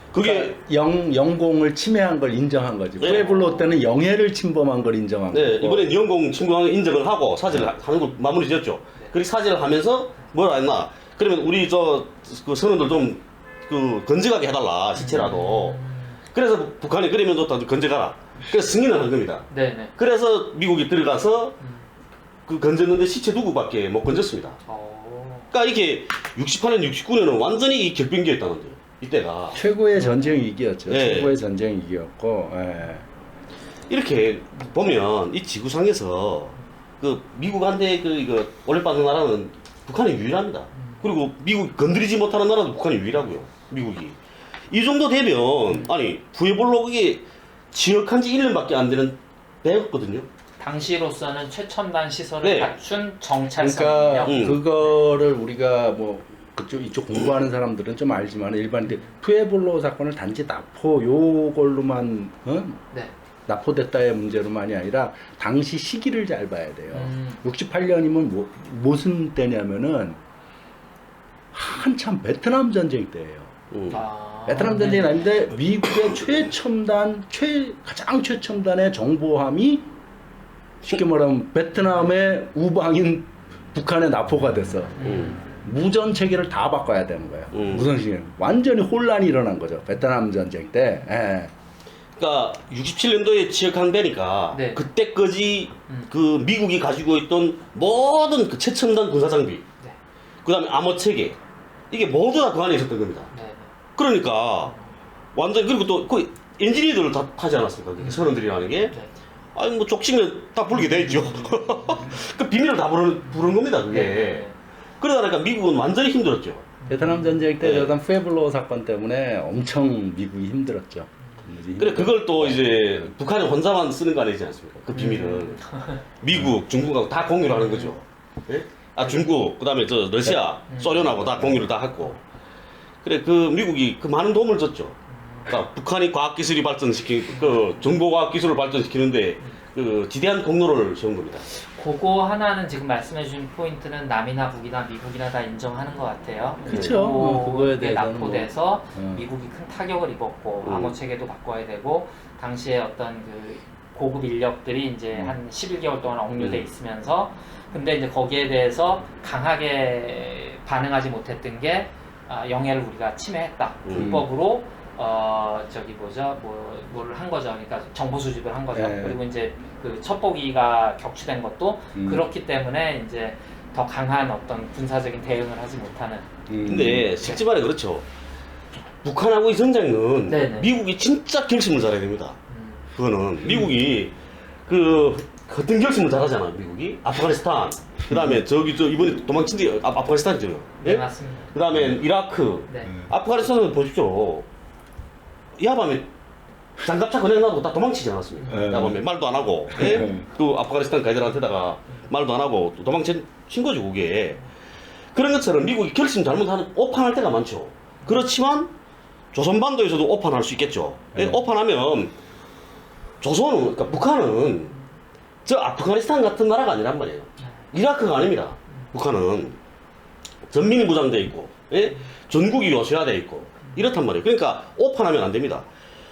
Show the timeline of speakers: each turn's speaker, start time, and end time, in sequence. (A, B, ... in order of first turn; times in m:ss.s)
0:00.1-0:00.6 A
0:00.2-0:05.9 B
0:03.0-0:03.3 A
0:03.0-0:03.8 C
0:05.3-0:15.8 A
0:15.0-0:16.2 C
0:16.3-0:21.6 A
0:19.5-0:19.9 C
0:21.6-0:21.9 C
0:22.5-0:24.6 A
0:24.7-0:25.5 C
0:25.5-0:29.6 A
0:29.5-0:33.0 B
0:30.0-0:30.4 C
0:30.9-0:31.4 A
0:33.9-0:44.2 A
0:40.8-0:41.0 C
0:44.7-0:50.3 A
0:50.6-0:54.4 C
0:52.4-0:52.8 A
0:53.6-1:02.8 B
0:54.2-0:54.6 A
0:58.8-0:59.1 C
1:03.5-1:10.2 B
1:06.9-1:07.4 C
1:11.5-1:13.5 B
1:13.7-1:14.0 A
1:13.9-1:15.2 C
1:14.5-1:19.9 B
1:20.8-1:31.5 B
1:25.0-1:25.4 C
1:25.0-1:25.4 A
1:27.5-1:27.9 A
1:32.2-1:39.6 A
1:34.5-1:34.8 C
1:40.4-1:41.4 A
1:41.9-1:43.3 A
1:43.3-1:43.7 C
1:44.0-1:44.7 A
1:45.3-1:48.9 A
1:48.0-1:48.3 C
1:49.5-1:54.4 A
1:50.8-1:52.2 C
1:53.9-1:54.5 C
1:55.0-1:56.7 A
1:56.8-1:57.4 C
1:56.9-2:03.1 B
1:57.6-1:57.9 A
2:01.8-2:05.7 A
2:04.9-2:06.0 C
2:06.2-2:12.2 A
2:06.3-2:06.5 B
2:07.6-2:07.9 C
2:09.0-2:09.3 C
2:10.7-2:11.2 C
2:11.4-2:11.6 B
2:13.0-2:21.4 A
2:15.1-2:15.5 C
2:17.3-2:17.9 C
2:21.5-2:56.3 C
2:26.6-2:29.2 B
2:26.7-2:26.9 A
2:30.6-2:31.0 A
2:36.4-2:36.6 A
2:43.8-2:44.2 A
2:43.9-2:44.2 B
2:48.7-2:49.2 B
2:51.9-2:52.3 B
2:56.5-2:57.1 B
2:56.6-2:58.0 A
2:59.0-3:02.4 A
3:00.3-3:00.7 C
3:02.5-3:02.8 C
3:02.9-3:04.1 A
3:04.7-3:14.5 A
3:08.1-3:08.4 B
3:10.8-3:11.5 C
3:12.7-3:12.9 C
3:15.6-3:16.1 A
3:16.8-3:24.4 A
3:18.4-3:18.7 C
3:18.5-3:19.0 B
3:19.7-3:20.3 B
3:25.1-3:28.7 A
3:29.3-3:32.1 A
3:31.1-3:31.4 B
3:33.2-3:34.7 A
3:35.4-3:39.6 A
3:40.5-3:45.6 A